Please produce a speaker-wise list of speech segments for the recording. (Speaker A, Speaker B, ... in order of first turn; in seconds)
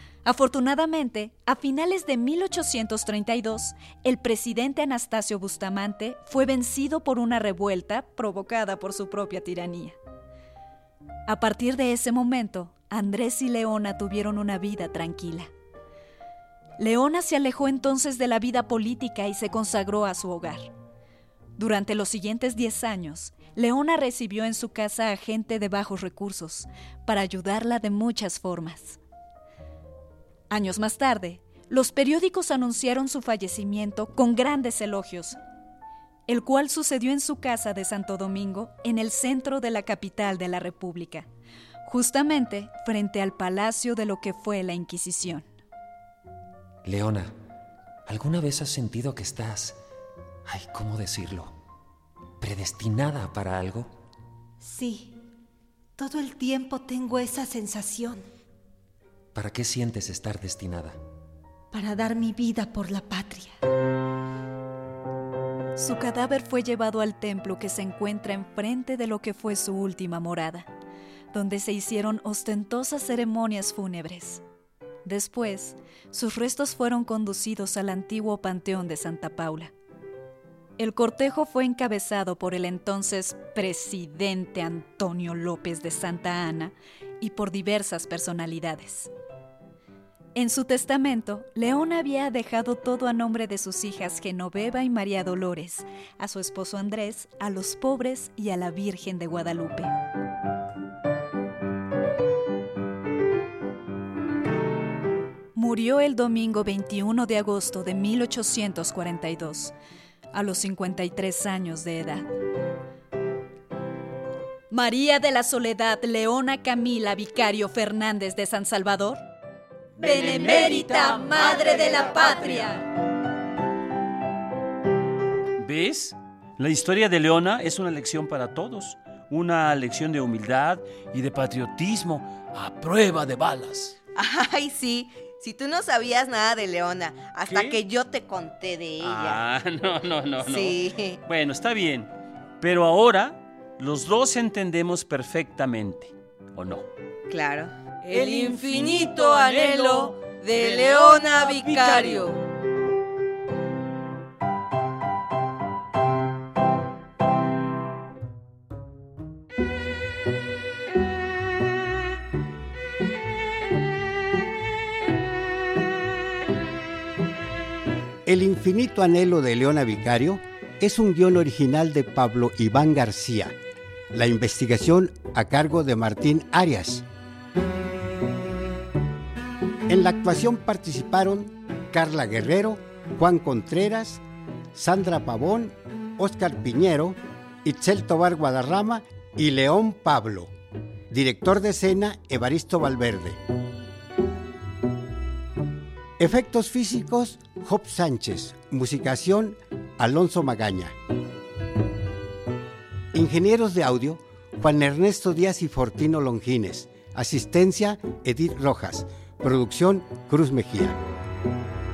Speaker A: 0.2-10.0, 11.3-15.5, 16.8-20.7, 21.6-29.0, 30.5-35.4, 36.3-41.3, 41.9-45.5, 65.8-70.7, 71.3-74.4, 75.0-79.7, 80.8-89.1, 90.3-99.9, 105.5-109.7, 110.3-112.3, 114.7-119.2, 120.0-122.8
Speaker B: 46.9-47.3, 48.1-49.8, 50.5-51.5, 52.4-53.9, 59.4-61.0
Speaker C: 54.6-55.2, 56.0-58.2, 61.7-63.6
Speaker D: 120.0-122.4, 134.2-139.4, 140.4-141.2, 147.3-152.4
Speaker E: 125.6-134.0, 137.5-137.8, 139.0-146.9, 148.1-152.2
Speaker F: 168.3-173.6, 174.1-177.1, 179.9-184.2, 184.8-190.5, 191.1-193.4, 196.2-200.9, 203.1-211.0